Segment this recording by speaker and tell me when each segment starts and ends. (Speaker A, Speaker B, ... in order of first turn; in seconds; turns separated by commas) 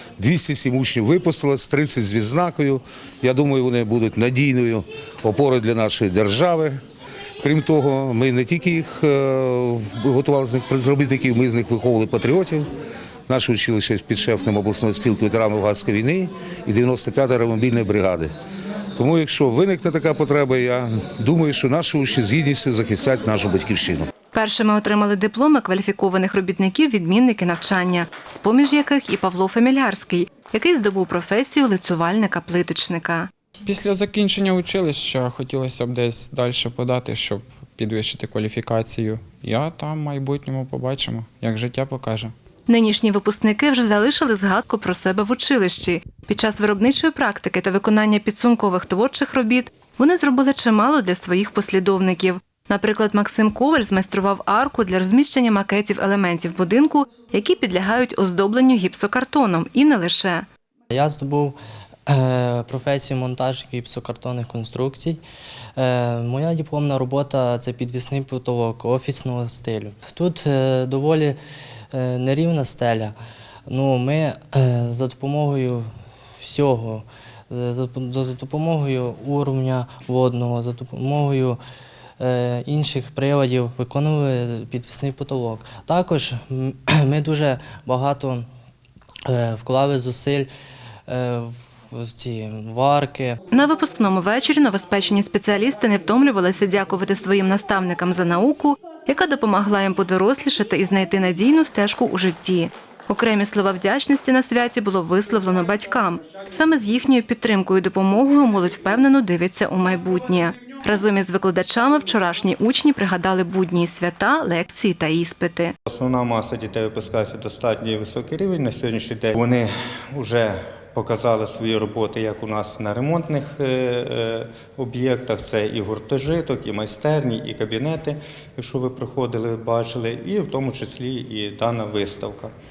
Speaker A: 0.2-6.8, Speaker A: 7.4-12.7, Speaker A: 13.3-18.3, Speaker A: 19.0-24.1, Speaker B: 24.3-33.3, Speaker C: 33.6-42.3, Speaker B: 42.7-60.4, Speaker D: 60.9-65.2, Speaker D: 65.8-71.4, Speaker D: 71.9-73.1, Speaker D: 73.7-75.9, Speaker D: 76.4-81.6, Speaker D: 82.2-88.5, Speaker D: 89.3-90.5, Speaker D: 91.1-93.4, Speaker B: 93.5-115.7, Speaker E: 115.9-132.5